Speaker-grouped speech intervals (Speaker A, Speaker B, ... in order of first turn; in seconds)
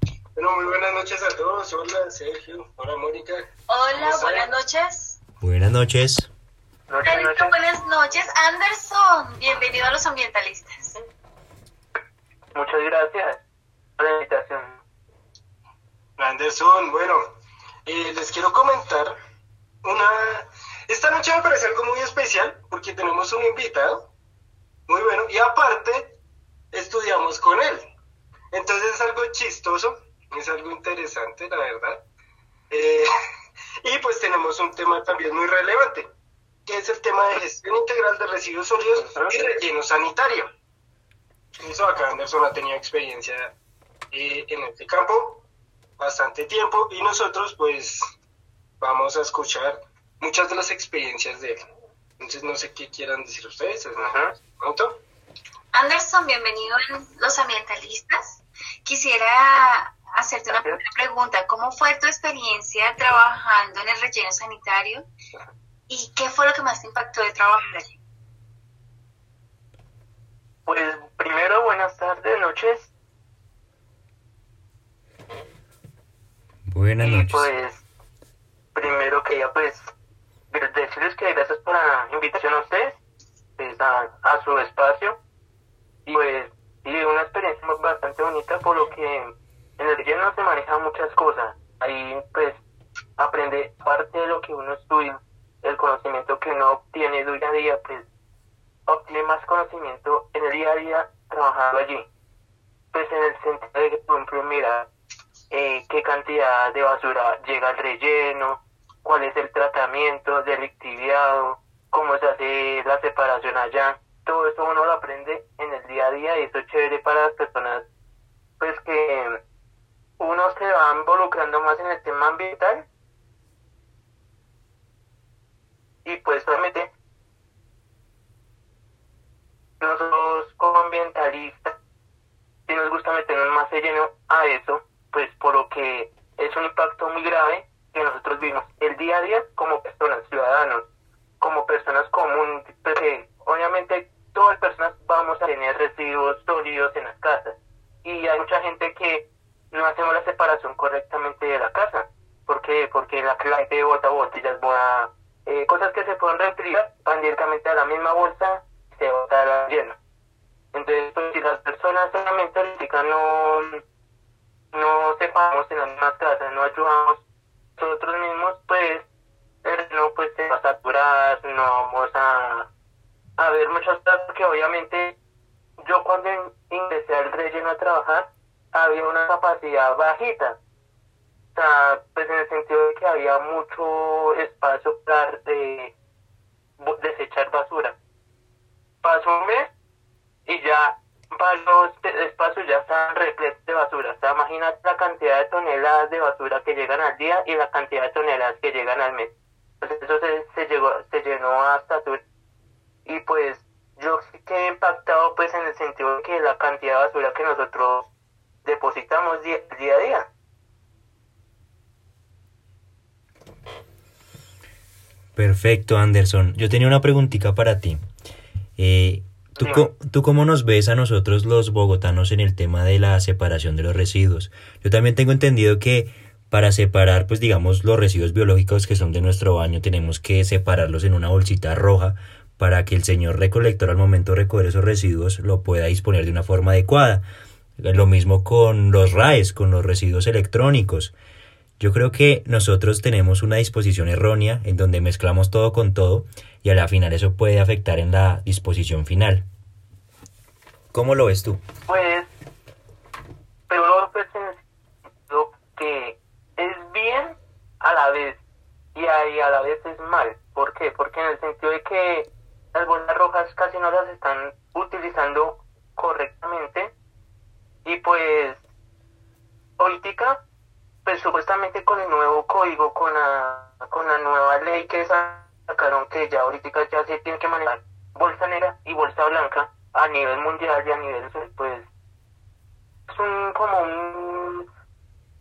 Speaker A: 0.3-4.5, 16.2-17.3, 17.9-19.2, 19.8-24.1, 24.9-26.2, 26.7-27.9, 28.5-32.0, 32.7-33.1, 33.8-36.1, 36.6-40.5, 41.6-43.5, 44.1-45.4, 46.0-48.0, 48.8-51.6, 52.2-55.0
Speaker B: 3.7-5.2, 7.0-11.0, 55.7-65.1, 65.9-67.9
Speaker C: 5.4-6.3, 76.7-77.5, 215.3-218.0, 218.8-237.2, 237.8-241.1, 241.8-249.4, 250.9-251.6
Speaker D: 6.9-7.5, 12.5-13.4, 14.0-14.8, 39.0-39.3, 54.0-54.3, 60.5-60.8, 70.7-72.9, 77.0-77.8, 78.7-79.9, 80.5-83.0, 83.6-85.2, 86.0-92.6, 93.2-98.0, 98.9-102.1, 102.9-104.9, 105.5-117.8, 118.6-119.4, 120.2-122.9, 126.0-126.9, 129.8-131.8, 132.7-140.8, 141.4-160.0, 160.7-163.8, 164.7-167.2, 167.8-169.0, 169.6-172.7, 173.4-175.2, 175.8-180.6, 181.5-185.9, 186.8-187.9, 189.0-189.7, 190.4-202.2, 203.1-208.1, 208.6-210.3, 219.6-219.9, 251.9-252.3, 253.7-254.6, 255.3-258.4, 258.9-266.9, 267.8-268.6, 269.8-270.4, 271.0-281.9, 283.1-284.6